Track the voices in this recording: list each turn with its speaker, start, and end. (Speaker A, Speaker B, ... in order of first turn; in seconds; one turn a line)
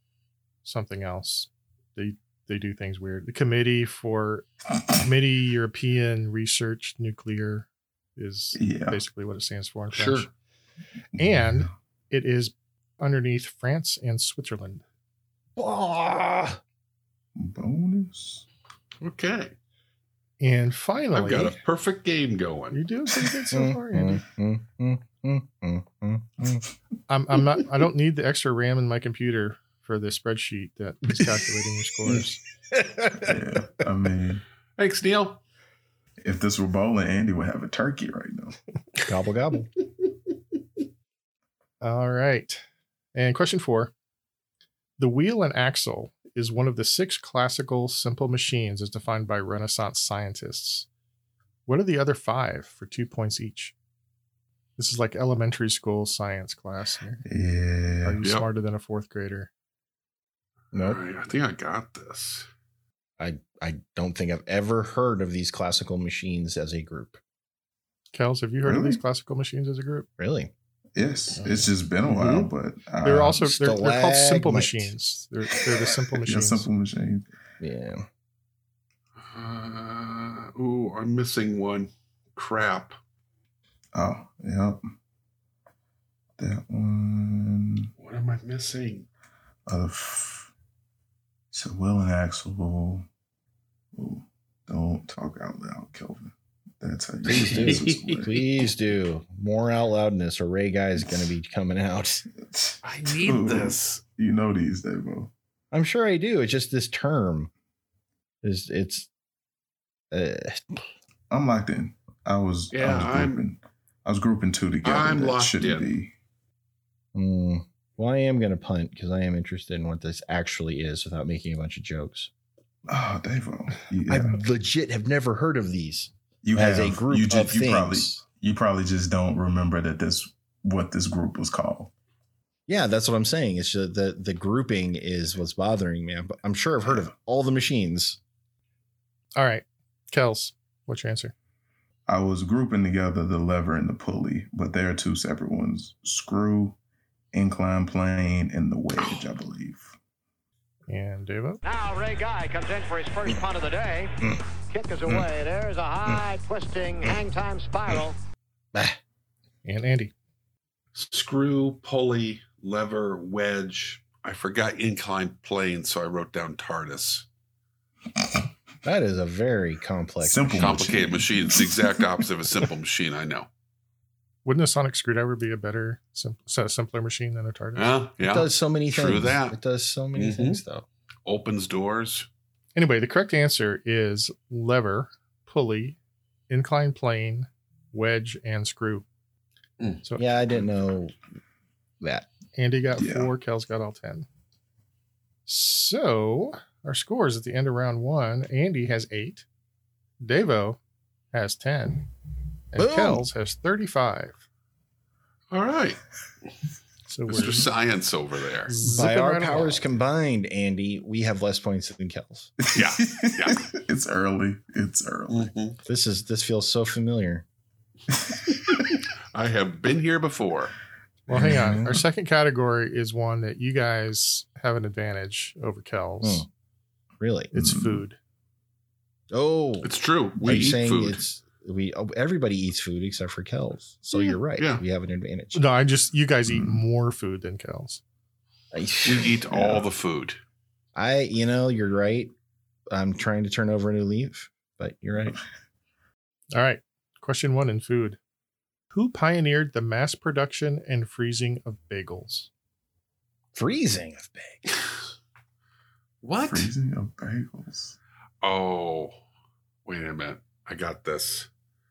Speaker A: 0.6-10.3
Speaker B: 8.6-9.0
Speaker C: 9.9-10.3
Speaker B: 11.2-11.7
Speaker A: 11.2-14.8
Speaker D: 15.6-16.6
Speaker B: 17.4-18.4
Speaker C: 19.0-19.6
Speaker A: 20.4-21.6
Speaker C: 21.1-22.8
Speaker A: 22.7-24.2
Speaker D: 23.5-26.6
Speaker A: 27.1-32.4
Speaker D: 32.0-33.4
Speaker B: 33.2-34.4
Speaker C: 34.8-35.4
Speaker B: 36.2-38.6
Speaker D: 39.1-39.7
Speaker A: 41.8-42.6
Speaker A: 43.1-43.9
Speaker A: 45.0-50.9
Speaker A: 51.7-53.7
Speaker A: 54.8-57.2
Speaker B: 57.2-58.2
Speaker A: 58.0-59.5
Speaker C: 58.2-58.5
Speaker D: 60.7-61.0
Speaker C: 60.8-62.5
Speaker D: 63.2-67.2
Speaker A: 68.1-70.1
Speaker B: 68.6-69.0
Speaker D: 70.2-70.5
Speaker B: 71.0-73.4
Speaker A: 71.3-72.5
Speaker A: 73.0-76.7
Speaker D: 73.4-75.0
Speaker B: 76.1-77.3
Speaker D: 77.6-78.1
Speaker C: 79.3-83.0
Speaker B: 83.9-84.9
Speaker B: 86.4-87.9
Speaker C: 88.0-89.1
Speaker B: 89.7-90.5
Speaker B: 91.5-93.1
Speaker B: 94.0-98.3
Speaker D: 97.2-102.2
Speaker C: 97.5-98.2
Speaker B: 102.5-105.3
Speaker C: 102.8-104.0
Speaker D: 105.7-107.5
Speaker D: 108.4-109.1
Speaker D: 110.1-110.8
Speaker B: 111.3-116.1
Speaker C: 112.7-113.4
Speaker C: 114.8-115.9
Speaker D: 117.1-122.3
Speaker B: 122.9-124.4
Speaker D: 124.1-128.2
Speaker B: 126.4-131.9
Speaker D: 132.7-138.2
Speaker A: 139.4-141.3
Speaker B: 142.1-146.8
Speaker B: 147.3-149.9
Speaker A: 150.9-151.6
Speaker E: 151.6-154.2
Speaker E: 154.7-158.2
Speaker D: 158.7-159.0
Speaker A: 159.7-160.1
Speaker C: 160.9-167.2
Speaker D: 168.8-170.9
Speaker B: 170.2-172.1
Speaker C: 170.6-173.5
Speaker A: 174.4-177.9
Speaker C: 177.8-179.6
Speaker D: 178.2-180.9
Speaker C: 180.2-180.6
Speaker C: 181.3-182.3
Speaker A: 182.8-186.0
Speaker A: 186.5-189.1
Speaker D: 190.2-191.2
Speaker D: 192.0-192.3
Speaker A: 192.6-194.3
Speaker B: 193.0-193.3
Speaker A: 195.5-199.5
Speaker A: 200.2-200.8
Speaker A: 201.3-202.1
Speaker A: 202.7-204.4
Speaker D: 202.8-203.3
Speaker C: 205.5-206.0
Speaker A: 207.1-207.7
Speaker C: 207.3-208.9
Speaker A: 208.7-209.9
Speaker D: 208.9-212.5
Speaker B: 212.7-215.5
Speaker C: 212.7-213.7
Speaker C: 215.3-215.8
Speaker D: 215.9-217.4
Speaker C: 219.3-220.7
Speaker A: 221.3-226.4
Speaker B: 221.3-221.8
Speaker D: 221.4-222.0
Speaker D: 226.2-226.5
Speaker D: 227.2-227.5
Speaker A: 227.5-228.2
Speaker B: 227.6-228.0
Speaker D: 229.3-235.6
Speaker C: 229.8-231.2
Speaker C: 234.1-234.8
Speaker A: 235.5-238.0
Speaker B: 236.5-236.8
Speaker D: 238.7-239.8
Speaker C: 239.0-240.4
Speaker D: 240.9-242.3
Speaker D: 242.9-245.4
Speaker A: 246.5-248.2
Speaker A: 248.9-252.5
Speaker D: 253.6-254.7
Speaker C: 256.2-256.7
Speaker B: 256.4-258.0
Speaker C: 258.4-259.2
Speaker C: 259.9-261.5